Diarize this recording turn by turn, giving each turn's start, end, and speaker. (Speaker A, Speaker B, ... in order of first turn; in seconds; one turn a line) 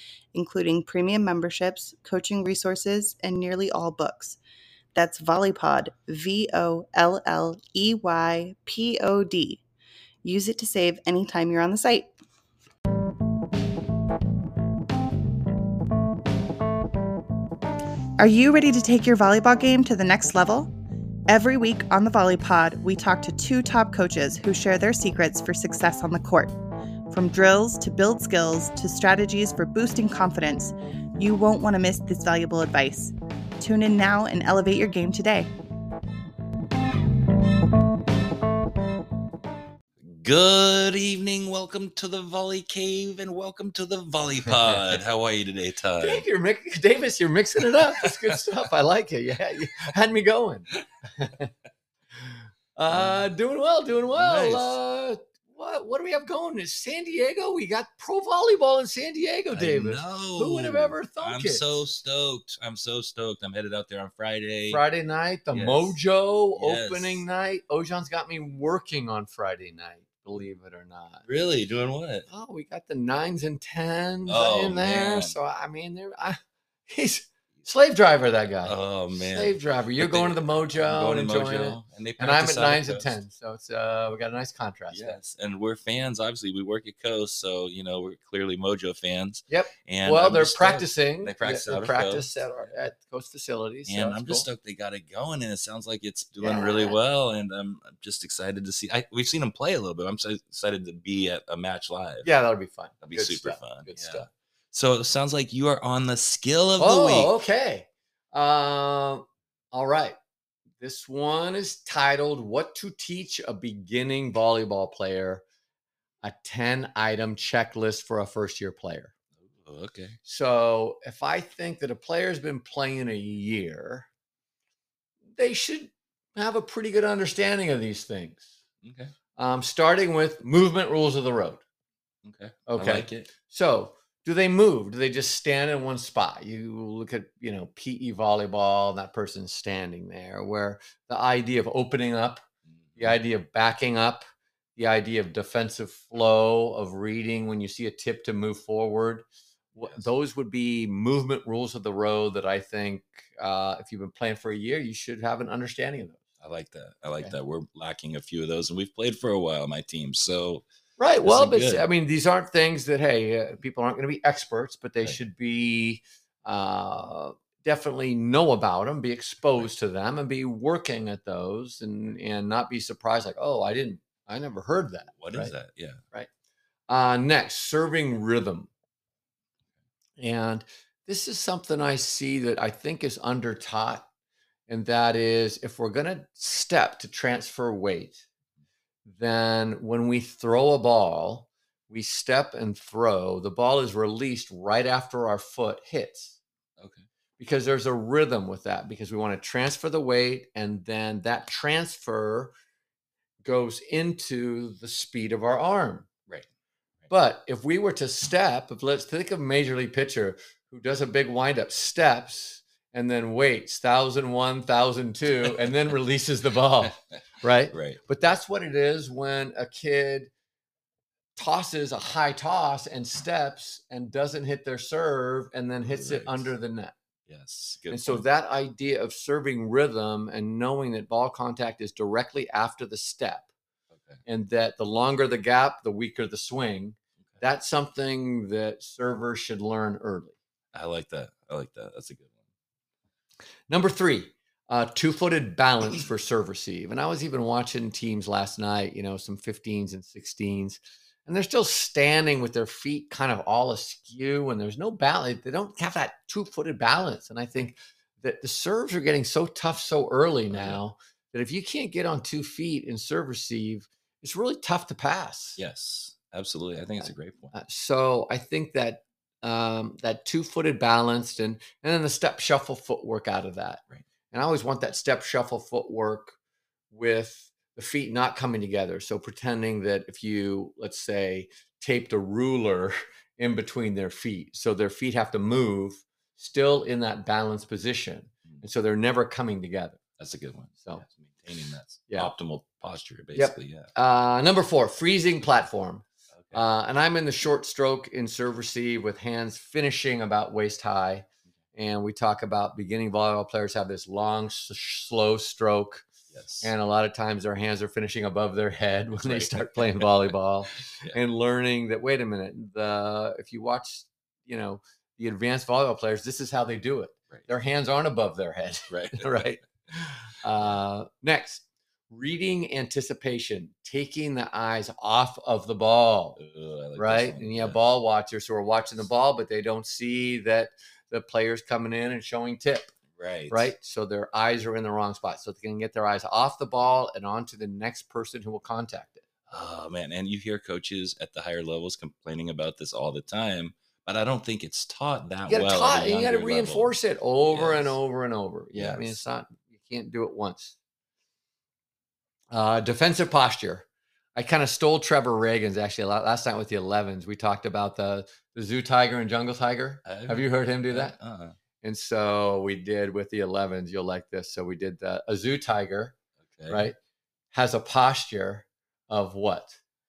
Speaker A: 0.3-4.4
Speaker A: 5.0-9.6
Speaker A: 10.2-12.1
Speaker A: 18.2-20.7
Speaker A: 21.3-26.5
Speaker A: 27.1-35.5
Speaker B: 40.0-46.2
Speaker C: 46.0-51.5
Speaker C: 52.2-61.6
Speaker B: 52.9-53.3
Speaker B: 54.1-54.8
Speaker B: 59.5-64.8
Speaker C: 64.7-71.3
Speaker B: 65.5-66.0
Speaker B: 66.6-67.2
Speaker B: 71.3-72.3
Speaker C: 72.3-85.2
Speaker B: 74.3-75.3
Speaker B: 78.7-83.2
Speaker B: 84.9-92.7
Speaker C: 89.5-94.5
Speaker B: 93.9-102.3
Speaker C: 96.4-97.0
Speaker C: 102.2-104.3
Speaker B: 103.0-107.3
Speaker C: 106.8-110.2
Speaker C: 110.8-115.4
Speaker C: 116.2-119.1
Speaker B: 119.6-120.2
Speaker C: 120.2-124.1
Speaker C: 125.4-128.5
Speaker B: 128.8-129.1
Speaker C: 129.4-131.6
Speaker B: 132.2-133.3
Speaker C: 132.7-142.4
Speaker B: 142.7-143.2
Speaker C: 143.0-144.2
Speaker C: 144.8-156.2
Speaker B: 156.4-160.7
Speaker C: 161.0-175.6
Speaker B: 161.2-161.9
Speaker B: 175.2-176.0
Speaker C: 176.9-178.7
Speaker C: 180.2-184.1
Speaker C: 184.7-188.3
Speaker C: 189.1-196.4
Speaker B: 196.8-197.0
Speaker C: 197.4-202.5
Speaker C: 203.4-206.1
Speaker C: 207.1-220.3
Speaker B: 217.7-218.0
Speaker C: 221.4-226.9
Speaker B: 225.9-226.5
Speaker B: 227.3-228.2
Speaker C: 227.9-233.5
Speaker B: 233.9-234.2
Speaker C: 234.3-240.3
Speaker B: 240.7-242.3
Speaker C: 243.7-265.6
Speaker B: 260.5-260.8
Speaker B: 265.6-267.5
Speaker C: 267.5-276.4
Speaker C: 276.9-290.0
Speaker B: 290.2-293.9
Speaker C: 293.4-306.1
Speaker B: 306.3-306.7
Speaker C: 306.6-326.4
Speaker B: 309.1-310.3
Speaker B: 318.9-319.5
Speaker B: 326.4-327.8
Speaker C: 327.0-332.9
Speaker B: 333.2-333.7
Speaker C: 333.5-339.2
Speaker B: 339.5-346.9
Speaker C: 345.5-350.8
Speaker B: 347.5-347.9
Speaker B: 348.7-349.2
Speaker C: 352.5-361.2
Speaker B: 360.1-361.6
Speaker C: 361.8-366.2
Speaker B: 366.5-366.9
Speaker C: 366.7-366.9
Speaker C: 367.5-369.8